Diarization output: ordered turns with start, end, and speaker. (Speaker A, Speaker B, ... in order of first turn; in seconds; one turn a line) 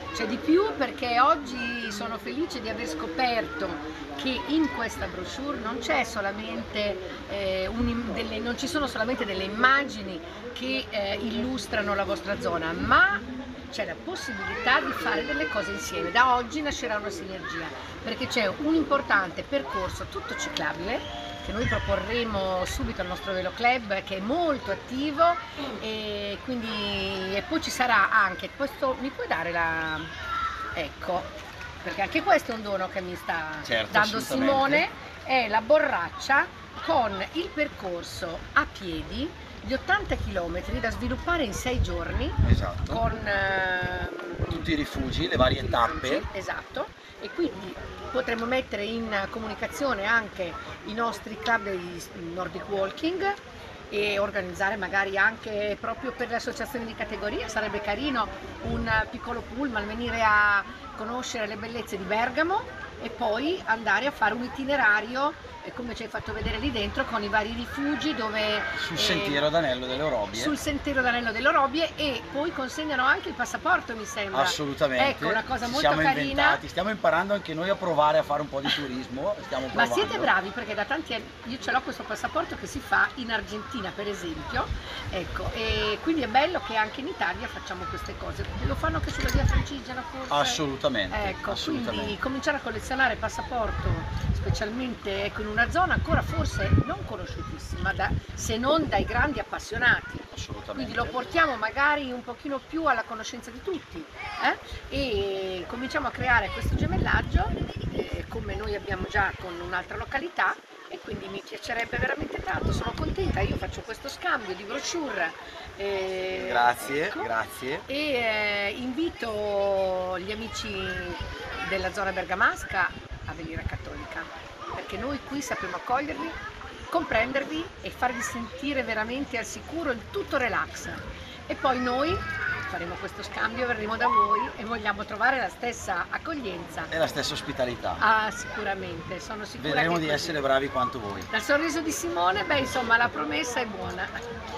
Speaker A: 0.1-30.1
Speaker A: 30.8-31.3
Speaker A: 31.8-44.6
Speaker B: 33.6-34.9
Speaker B: 42.4-43.0
Speaker B: 44.5-46.3
Speaker A: 45.5-69.5
Speaker B: 68.8-70.6
Speaker A: 70.3-76.6
Speaker B: 74.3-80.3
Speaker A: 79.7-117.3
Speaker B: 90.3-92.2
Speaker B: 100.3-101.2
Speaker B: 116.3-117.8
Speaker A: 117.9-126.4
Speaker A: 126.9-136.9
Speaker B: 136.9-138.0
Speaker A: 138.0-140.4
Speaker B: 139.6-141.3
Speaker A: 141.3-144.2